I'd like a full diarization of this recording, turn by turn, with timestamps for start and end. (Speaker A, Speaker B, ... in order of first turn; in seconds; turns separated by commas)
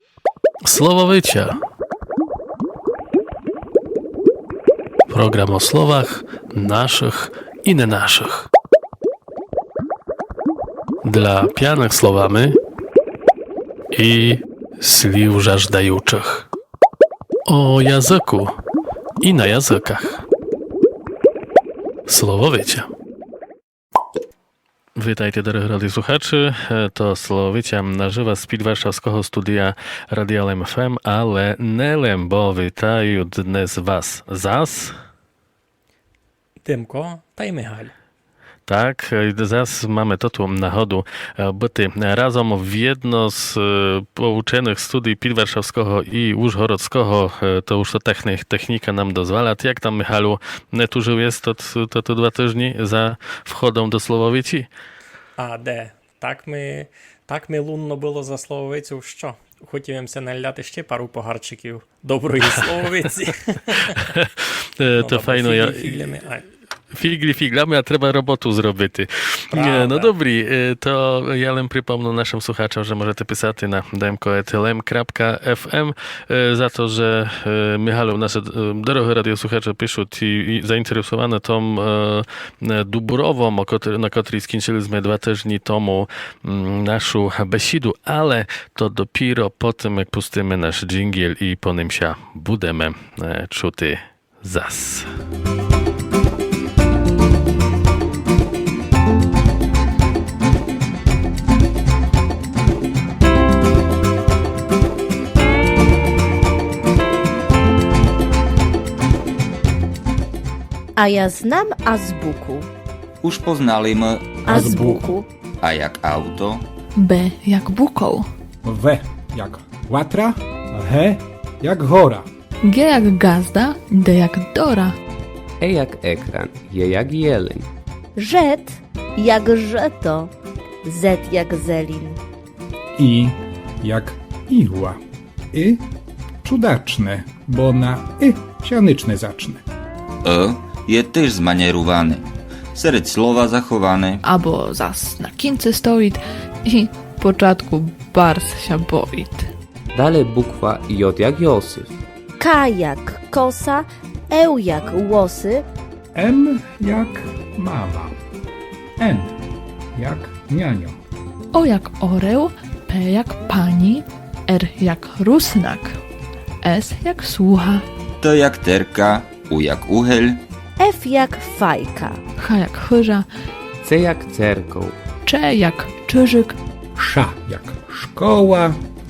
Speaker A: 0.6-1.6, Speaker A: 5.1-8.5, Speaker A: 11.0-12.6, Speaker A: 13.9-16.5, Speaker A: 17.5-18.6, Speaker A: 19.2-20.2, Speaker A: 22.1-22.9, Speaker A: 25.0-35.0, Speaker B: 36.6-37.9, Speaker A: 38.7-54.7, Speaker B: 55.4-64.1, Speaker A: 64.0-66.1, Speaker B: 65.0-66.5, Speaker A: 66.9-95.1, Speaker B: 69.5-70.1, Speaker C: 111.0-112.7, Speaker D: 113.2-114.4, Speaker C: 114.5-115.3, Speaker E: 114.5-115.1, Speaker D: 115.6-116.6, Speaker F: 117.0-118.3, Speaker E: 118.6-122.3, Speaker F: 122.6-125.0, Speaker G: 125.6-127.7, Speaker C: 128.2-130.3, Speaker C: 130.8-132.2, Speaker E: 132.9-135.0, Speaker E: 135.5-135.8, Speaker E: 136.4-139.6, Speaker D: 140.2-144.2, Speaker F: 144.2-149.5, Speaker G: 149.9-152.0, Speaker C: 152.4-155.7, Speaker E: 156.1-158.2, Speaker E: 159.0-159.4, Speaker E: 159.9-161.0, Speaker F: 161.5-166.0, Speaker F: 166.6-167.8, Speaker D: 168.2-170.4, Speaker C: 170.8-172.2, Speaker F: 172.4-173.3, Speaker G: 173.8-175.0, Speaker F: 175.2-176.6, Speaker E: 177.0-178.8